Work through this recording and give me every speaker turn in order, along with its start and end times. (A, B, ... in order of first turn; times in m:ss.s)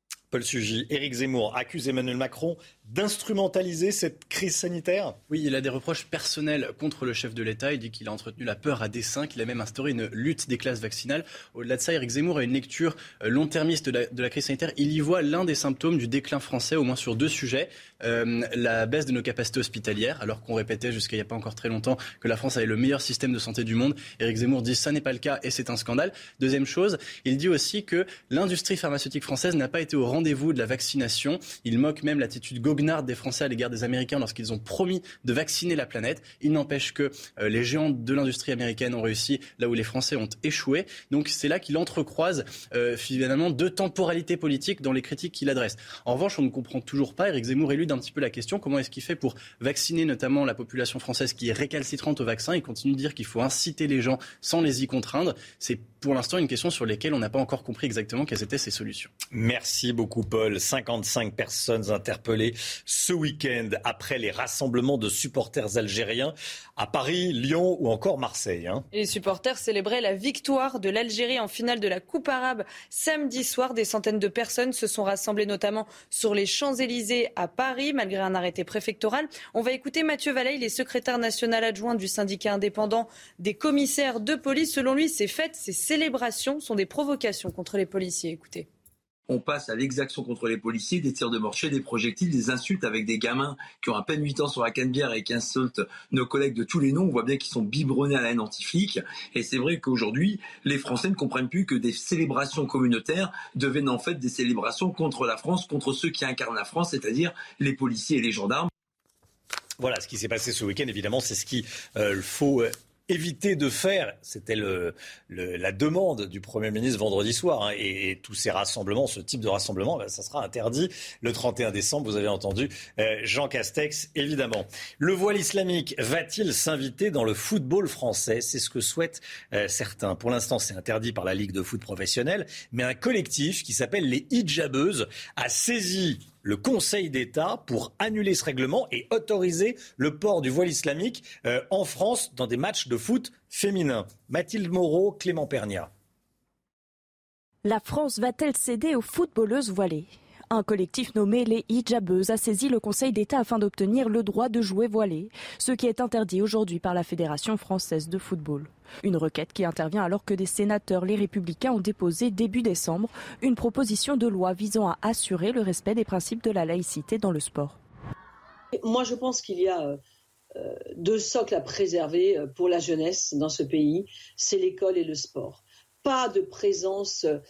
0:00.3-0:05.2 A
0:05.3-0:59.1 B
0:59.3-1:08.9 A
1:08.9-1:28.7 C
1:29.3-1:48.7 D
1:49.8-2:25.9 A
2:27.6-2:47.8 E
2:48.8-2:50.0 F
2:50.6-2:57.4 F